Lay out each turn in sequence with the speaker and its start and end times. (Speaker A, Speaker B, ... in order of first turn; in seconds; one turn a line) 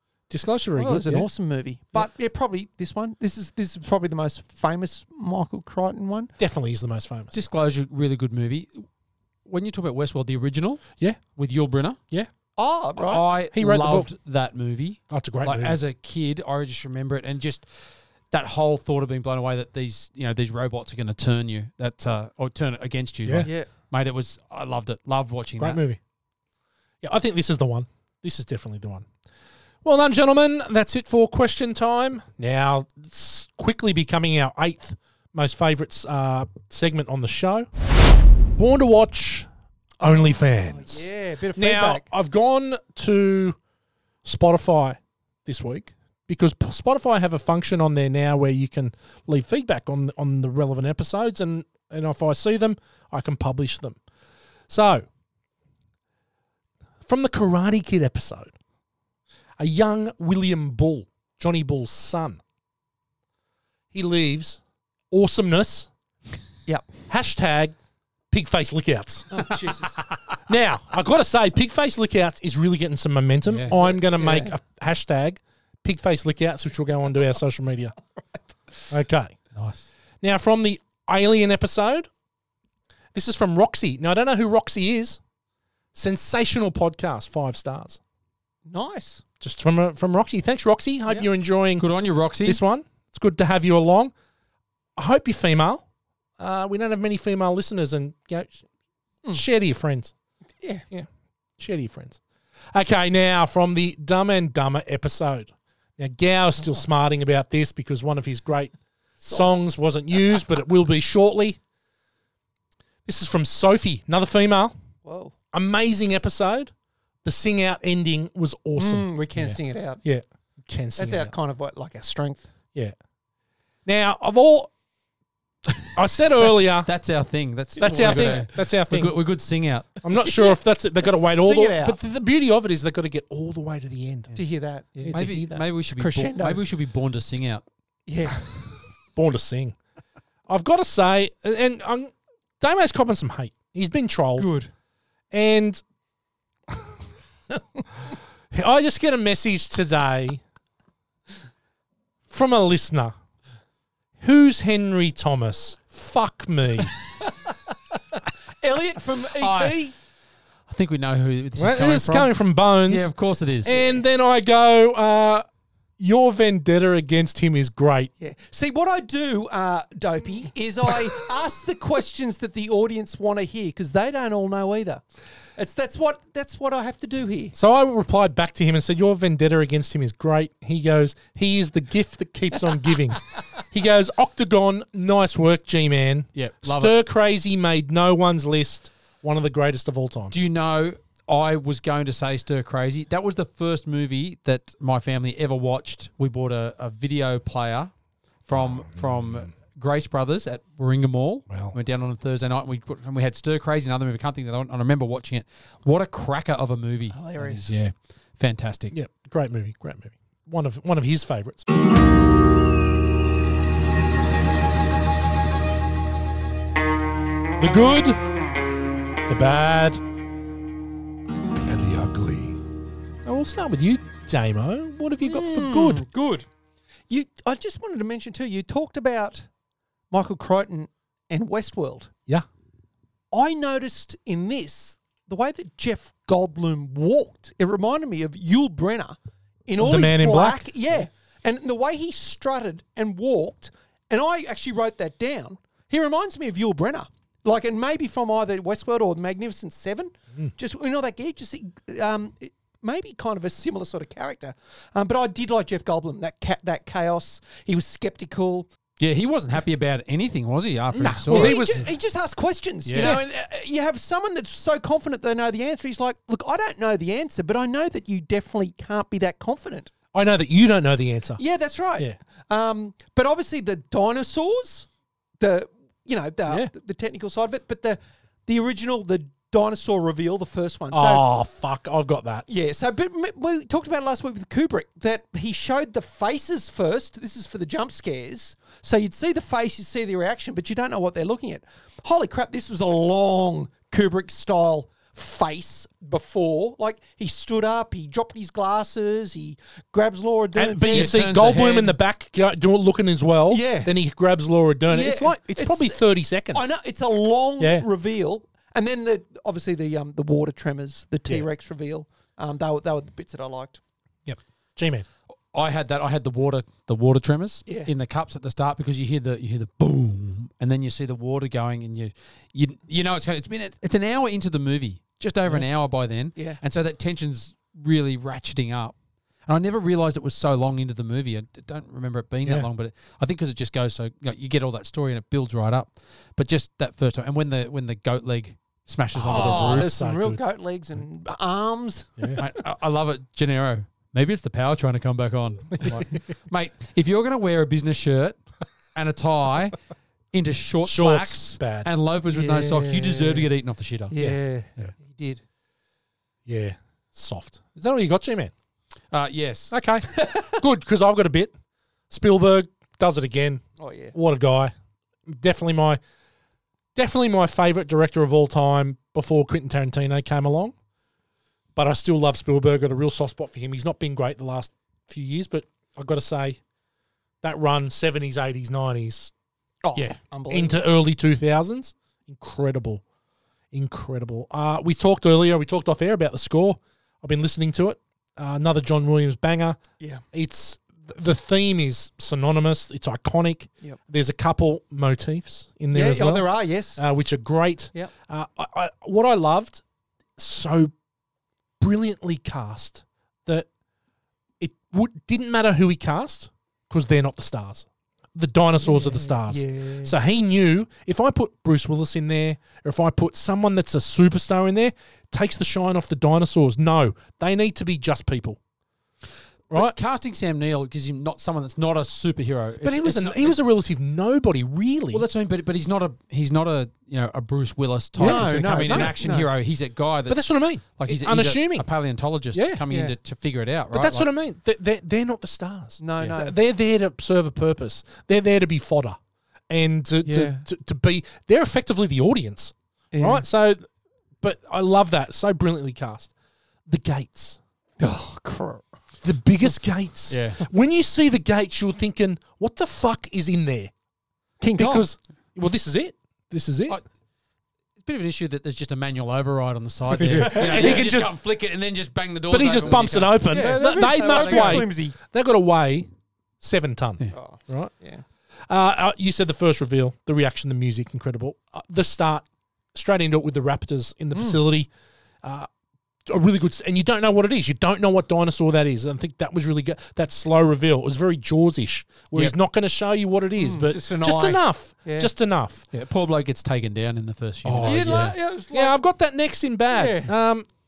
Speaker A: 0.3-1.3
Speaker B: 0.8-6.3
Speaker A: 6.4-7.3
Speaker C: 7.3-8.8
Speaker C: 9.4-12.0
Speaker B: 12.6-13.2
Speaker C: 13.0-17.6
Speaker A: 13.5-14.1
Speaker A: 15.1-15.8
Speaker C: 18.3-25.8
Speaker B: 23.4-23.7
Speaker A: 25.6-26.0
Speaker A: 27.0-29.1
Speaker A: 29.8-37.7
Speaker A: 38.5-39.5
Speaker B: 40.0-42.1
Speaker A: 40.0-43.6
Speaker A: 44.2-54.0
Speaker A: 54.7-55.1
Speaker A: 57.0-58.5
Speaker A: 59.6-62.4
Speaker A: 63.9-65.9
Speaker A: 67.1-67.8
Speaker A: 68.3-69.5
Speaker B: 69.3-70.0
Speaker A: 70.5-77.9
Speaker C: 73.5-73.7
Speaker B: 73.8-74.5
Speaker A: 78.9-79.3
Speaker C: 79.5-79.8
Speaker A: 80.2-82.1
Speaker A: 83.1-85.2
Speaker A: 85.9-88.0
Speaker B: 88.7-89.2
Speaker A: 89.4-91.9
Speaker C: 91.8-92.6
Speaker A: 92.4-94.1
Speaker A: 95.0-95.8
Speaker A: 96.4-98.7
Speaker A: 99.3-100.1
Speaker A: 101.6-102.2
Speaker A: 102.7-108.7
Speaker B: 109.2-109.8
Speaker A: 109.2-111.6
Speaker A: 113.0-114.7
Speaker B: 115.0-115.3
Speaker A: 115.5-116.7
Speaker A: 117.2-121.3
Speaker B: 118.8-120.0
Speaker B: 121.0-122.5
Speaker A: 123.8-124.7
Speaker A: 125.9-126.9
Speaker C: 126.5-130.0
Speaker A: 127.8-129.2
Speaker B: 128.0-128.4
Speaker A: 130.0-134.3
Speaker B: 130.2-132.0
Speaker B: 134.3-135.2
Speaker A: 135.0-135.6
Speaker C: 135.1-137.6
Speaker B: 135.9-136.6
Speaker B: 138.1-138.4
Speaker A: 139.1-139.8
Speaker A: 140.5-144.5
Speaker B: 144.4-144.7
Speaker A: 145.3-145.8
Speaker A: 148.5-150.4
Speaker A: 152.3-153.1
Speaker A: 154.2-156.9
Speaker B: 158.6-159.9
Speaker C: 159.3-159.8
Speaker C: 160.7-163.8
Speaker A: 161.6-163.1
Speaker A: 163.6-165.4
Speaker B: 163.7-164.0
Speaker A: 166.0-168.1
Speaker B: 168.2-175.0
Speaker B: 175.6-177.6
Speaker A: 177.5-190.3
Speaker C: 186.3-186.9
Speaker C: 190.3-197.9
Speaker C: 198.4-208.9
Speaker A: 201.5-201.7
Speaker B: 207.1-207.7
Speaker A: 208.9-211.7
Speaker A: 217.6-218.2
Speaker A: 219.3-220.0
Speaker A: 221.6-222.6
Speaker A: 223.2-226.0
Speaker B: 225.2-226.5
Speaker B: 227.1-229.5
Speaker B: 230.1-232.1
Speaker B: 233.3-258.7
Speaker A: 239.8-240.7
Speaker C: 259.0-261.8
Speaker A: 260.9-261.9
Speaker B: 261.3-269.9
Speaker A: 262.8-263.2
Speaker A: 270.1-271.4
Speaker B: 271.4-274.9
Speaker B: 275.4-281.2
Speaker A: 280.9-282.4
Speaker B: 282.5-301.3
Speaker A: 300.5-306.7
Speaker C: 300.9-301.9
Speaker B: 303.5-303.9
Speaker B: 304.9-306.0
Speaker B: 306.5-313.8
Speaker A: 307.6-307.9
Speaker A: 314.2-315.1
Speaker C: 315.5-328.9
Speaker C: 329.5-339.9
Speaker A: 339.1-340.4
Speaker B: 339.3-342.4
Speaker C: 342.4-348.4
Speaker A: 345.8-346.1
Speaker C: 348.9-349.8
Speaker C: 350.3-354.9
Speaker A: 350.8-351.9
Speaker B: 352.3-353.5
Speaker B: 354.1-355.4
Speaker A: 356.4-358.5
Speaker C: 359.1-359.8
Speaker A: 359.7-361.5
Speaker B: 360.2-360.5
Speaker A: 362.1-364.7
Speaker B: 363.8-364.1
Speaker A: 365.3-366.0
Speaker A: 366.9-370.7
Speaker A: 371.8-376.6
Speaker A: 377.4-379.3
Speaker B: 379.8-380.8
Speaker A: 379.9-383.0
Speaker A: 383.7-389.8
Speaker A: 390.3-399.8
Speaker B: 395.9-397.0
Speaker A: 400.4-400.9
Speaker A: 401.8-403.7
Speaker A: 404.6-418.6
Speaker B: 408.8-410.1
Speaker C: 419.7-423.6
Speaker A: 422.8-425.2
Speaker C: 425.1-434.3
Speaker A: 428.2-429.1
Speaker B: 428.2-429.5
Speaker A: 430.3-431.9
Speaker A: 432.5-432.8
Speaker B: 432.9-433.1
Speaker A: 433.9-439.2
Speaker B: 436.0-436.6
Speaker A: 439.7-443.9
Speaker B: 440.2-440.6
Speaker B: 443.1-443.4
Speaker A: 444.4-446.3
Speaker A: 446.9-447.6
Speaker B: 448.0-448.8
Speaker A: 449.2-453.9
Speaker C: 450.3-450.6
Speaker B: 454.6-455.1
Speaker A: 454.8-457.0
Speaker C: 458.0-464.9
Speaker B: 460.2-461.1
Speaker A: 460.3-461.4
Speaker A: 462.5-466.1
Speaker B: 463.5-465.1
Speaker A: 466.6-467.9
Speaker B: 467.3-468.2
Speaker A: 468.7-474.9
Speaker B: 474.3-474.6
Speaker A: 475.4-475.7
Speaker A: 476.2-485.9
Speaker B: 483.6-485.3
Speaker C: 485.9-488.3
Speaker A: 487.6-490.7
Speaker B: 487.8-489.0
Speaker B: 489.9-490.3